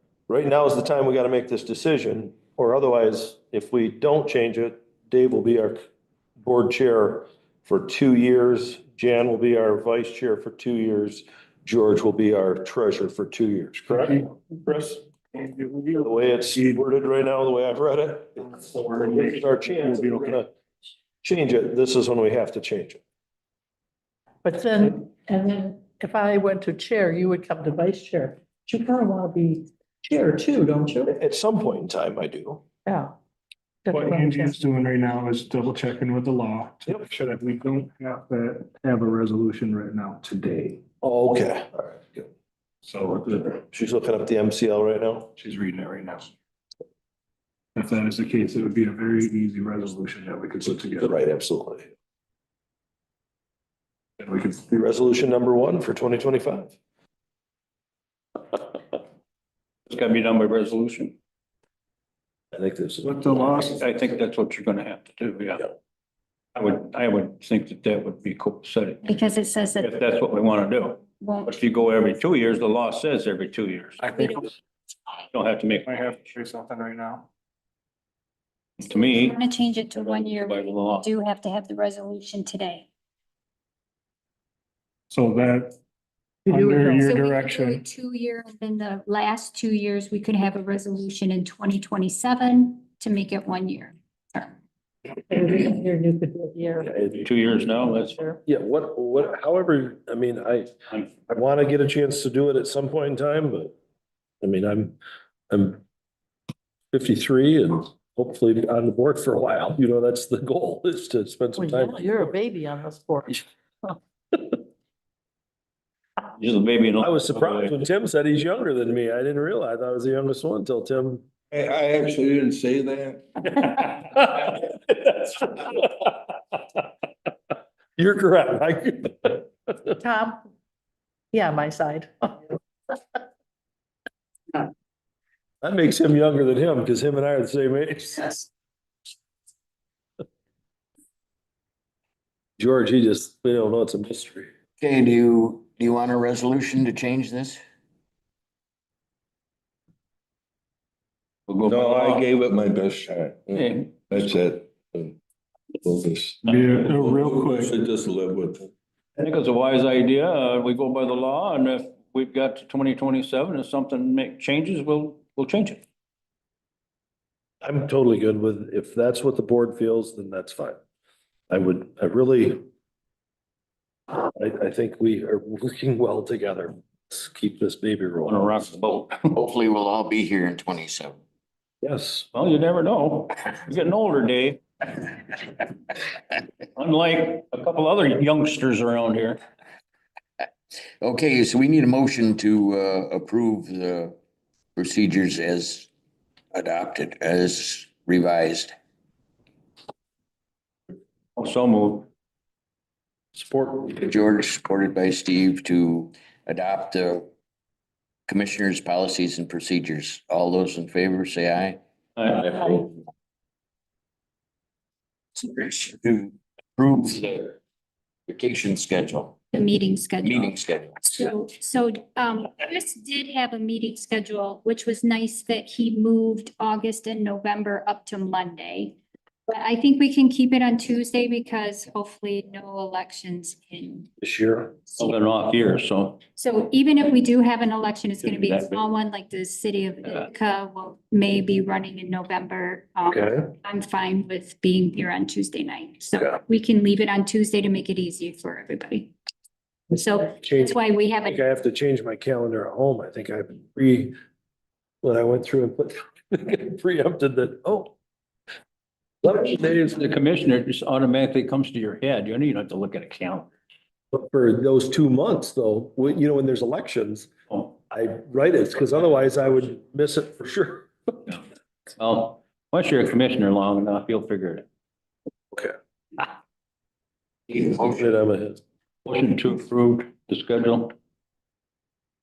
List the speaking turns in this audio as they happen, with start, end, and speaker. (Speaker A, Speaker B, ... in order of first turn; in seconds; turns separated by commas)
Speaker A: 0.3-5.8, Speaker A: 6.4-15.0, Speaker B: 13.8-14.3, Speaker B: 15.3-16.8, Speaker A: 16.0-20.5, Speaker B: 18.5-20.4, Speaker A: 21.2-23.0, Speaker C: 24.4-31.1, Speaker A: 31.1-32.6, Speaker C: 32.9-33.1, Speaker C: 33.8-34.6, Speaker B: 33.9-40.8, Speaker A: 41.0-42.2, Speaker B: 42.9-43.5, Speaker A: 43.3-45.3, Speaker B: 45.4-46.3, Speaker B: 47.8-51.2, Speaker A: 51.0-51.9, Speaker B: 54.2-54.6, Speaker A: 54.6-56.8, Speaker D: 59.9-61.1, Speaker A: 62.5-63.8, Speaker B: 63.0-63.7, Speaker D: 63.7-65.7, Speaker D: 66.5-69.0, Speaker E: 69.0-70.0, Speaker D: 69.8-74.1, Speaker E: 71.2-71.6, Speaker E: 74.0-74.5, Speaker D: 75.3-76.3, Speaker B: 75.9-77.3, Speaker E: 78.8-82.9, Speaker D: 78.9-79.4, Speaker D: 80.1-81.1, Speaker B: 85.1-85.7, Speaker C: 86.5-87.1, Speaker B: 86.5-87.8, Speaker E: 87.0-94.5, Speaker C: 95.3-97.0, Speaker A: 96.8-97.2, Speaker D: 97.2-98.2, Speaker C: 97.7-98.4, Speaker A: 98.5-100.7, Speaker A: 101.3-103.7, Speaker A: 104.4-105.0, Speaker A: 105.5-105.8, Speaker A: 106.9-112.3, Speaker C: 111.5-113.4, Speaker D: 116.3-117.7, Speaker A: 117.0-121.2, Speaker F: 121.5-123.9, Speaker A: 124.0-125.9, Speaker A: 128.0-129.9, Speaker C: 130.0-130.4, Speaker C: 131.3-132.4, Speaker A: 135.6-138.5, Speaker A: 142.6-144.5, Speaker G: 144.8-147.6, Speaker D: 151.5-152.2, Speaker F: 151.6-155.2, Speaker D: 153.5-153.9, Speaker F: 155.8-158.7, Speaker B: 156.4-157.8, Speaker D: 156.5-156.7, Speaker D: 159.2-165.8, Speaker A: 167.6-170.8, Speaker A: 171.5-172.6, Speaker A: 174.2-178.6, Speaker D: 178.2-179.3, Speaker G: 179.3-181.2, Speaker A: 181.8-182.3, Speaker D: 182.3-184.6, Speaker D: 186.7-189.4, Speaker G: 191.0-194.1, Speaker G: 194.8-195.9, Speaker G: 196.5-198.7, Speaker D: 201.4-202.1, Speaker D: 203.3-203.8, Speaker G: 203.8-207.2, Speaker G: 208.3-213.0, Speaker D: 212.2-212.4, Speaker G: 215.3-217.6, Speaker G: 218.3-219.4, Speaker E: 219.5-220.5, Speaker G: 220.2-221.3, Speaker E: 221.1-234.1, Speaker A: 234.2-234.8, Speaker D: 235.0-236.2, Speaker E: 236.3-249.1, Speaker A: 243.1-243.5, Speaker E: 249.9-251.4, Speaker A: 250.4-250.7, Speaker A: 251.2-254.1, Speaker A: 255.0-257.9, Speaker A: 259.2-259.9, Speaker D: 259.3-263.5, Speaker A: 264.1-267.3, Speaker A: 267.9-271.3, Speaker D: 272.0-274.6, Speaker G: 277.5-278.1, Speaker A: 277.8-278.6, Speaker D: 279.0-280.9